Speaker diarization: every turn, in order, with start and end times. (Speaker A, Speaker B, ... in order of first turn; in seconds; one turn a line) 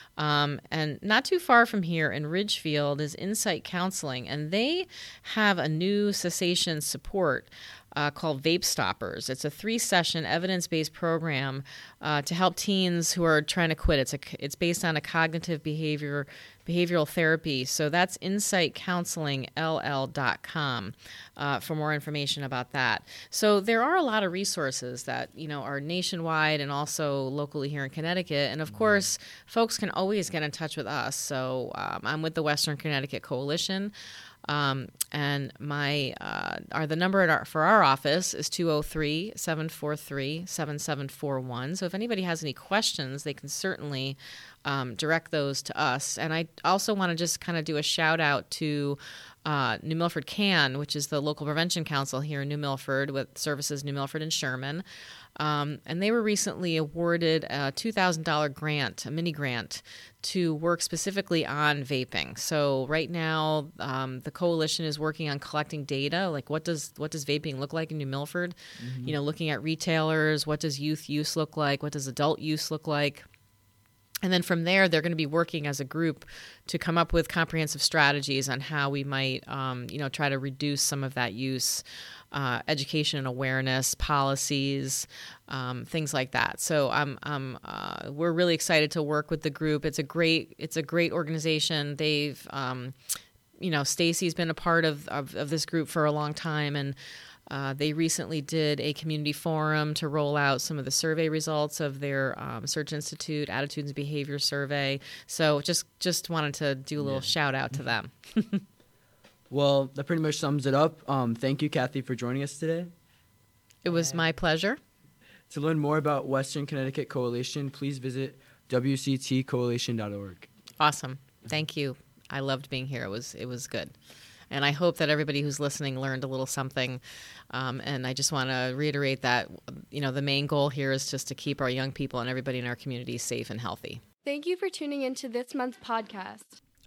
Speaker A: 0.2-33.9
Speaker B: 28.7-29.1
Speaker A: 34.5-54.8
Speaker A: 55.4-73.3
Speaker B: 68.8-69.2
Speaker A: 74.2-92.9
Speaker A: 93.6-97.0
Speaker A: 97.5-108.6
Speaker B: 107.0-107.3
Speaker B: 109.5-112.9
Speaker A: 113.8-114.8
Speaker B: 115.5-120.5
Speaker A: 120.8-123.9
Speaker A: 124.5-134.0
Speaker C: 134.2-136.6